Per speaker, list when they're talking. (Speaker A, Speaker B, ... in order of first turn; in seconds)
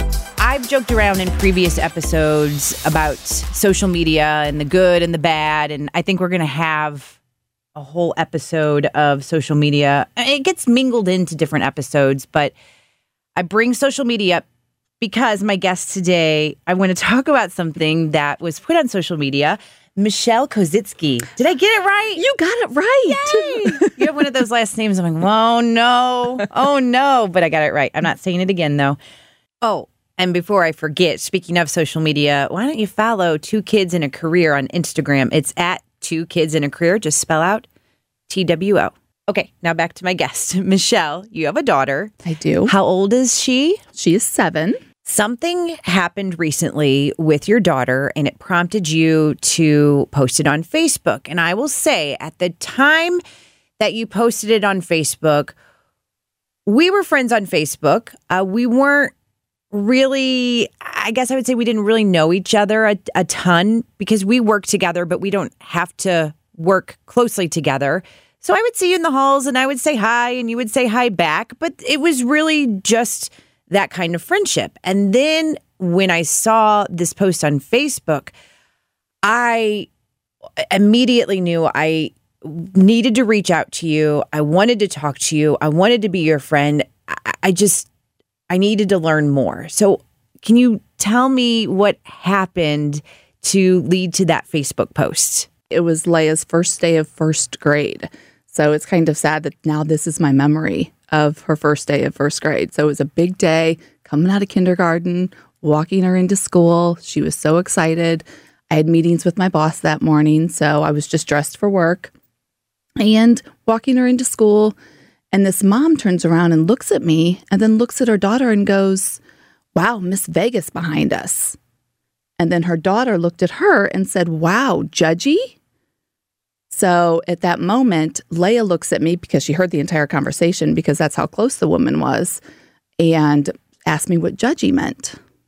Speaker A: 0.4-7.2, 7.7-12.5, 13.4-14.4, 15.0-22.2, 23.1-29.0, 29.6-37.7, 38.3-42.1, 42.6-43.8, 45.0-53.2, 53.8-55.5, 56.7-59.1, 59.7-78.3, 79.2-79.9, 80.6-87.9, 88.5-95.5
Speaker B: 22.2-24.1, 42.2-42.7, 44.0-44.8, 95.7-112.1, 113.0-114.8, 115.3-119.2, 119.8-121.6, 122.4-125.5, 126.7-132.4, 133.0-135.2